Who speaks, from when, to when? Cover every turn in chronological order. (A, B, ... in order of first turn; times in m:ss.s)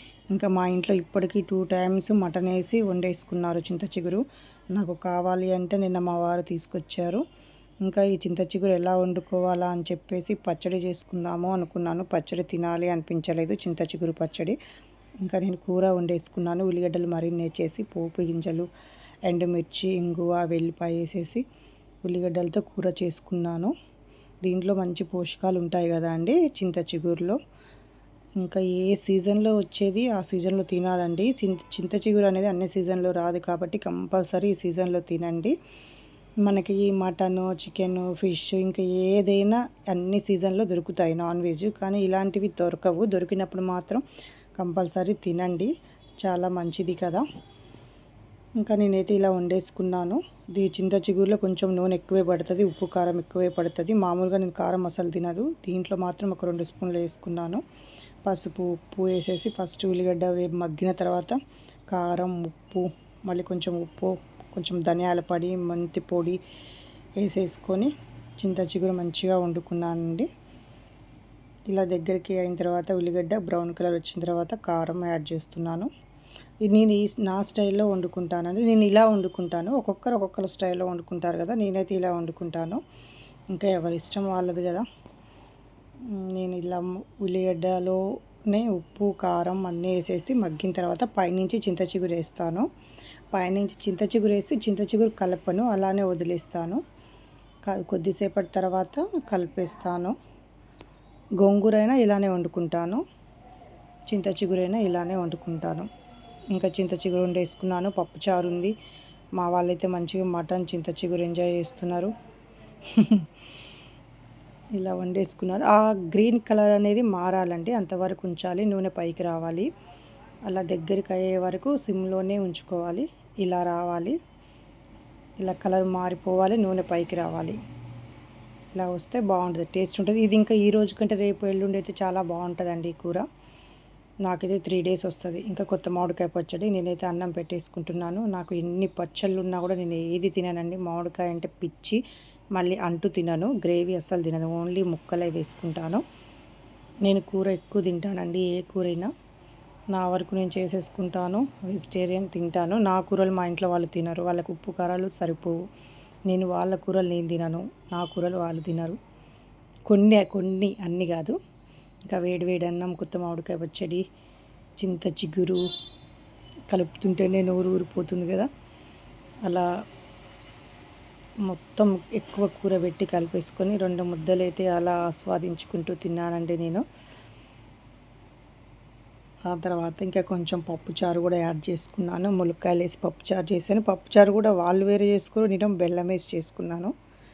0:00.3-0:04.2 A
0:04.7-0:07.2 A
0:07.8-0:14.6 A
0:15.2-0:18.7 A
0:19.3-0:21.4 A
0:22.0-0:23.7 A
0:24.4-0:27.4 A
0:28.4-0:35.5 A
0:36.4-0:44.0 A
0:44.6-0:45.7 A
0:46.2-0:47.2 A
0:48.6-0:57.6 A
0:58.2-1:01.4 A
1:01.9-1:06.4 A
1:07.2-1:10.3 A
1:11.7-1:15.9 A
1:16.6-1:22.8 A
1:23.5-1:24.8 A
1:26.1-1:32.7 A
1:33.3-1:36.8 A
1:37.6-1:40.1 A
1:41.4-1:43.0 A
1:44.1-1:45.9 A
1:46.5-1:48.7 A
1:49.4-1:52.1 A
1:52.9-1:53.3 A
1:54.8-1:59.7 A
2:00.5-2:04.2 A
2:05.4-2:07.6 A
2:08.7-2:13.2 A
2:14.2-2:22.0 A
2:22.6-2:26.0 A
2:27.0-2:29.1 A
2:29.9-2:35.6 A
2:36.3-2:39.0 A
2:39.9-2:41.4 A
2:42.1-2:44.0 A
2:44.8-2:45.6 A
2:46.7-2:48.5 A
2:51.4-2:56.8 A
2:59.5-3:06.9 A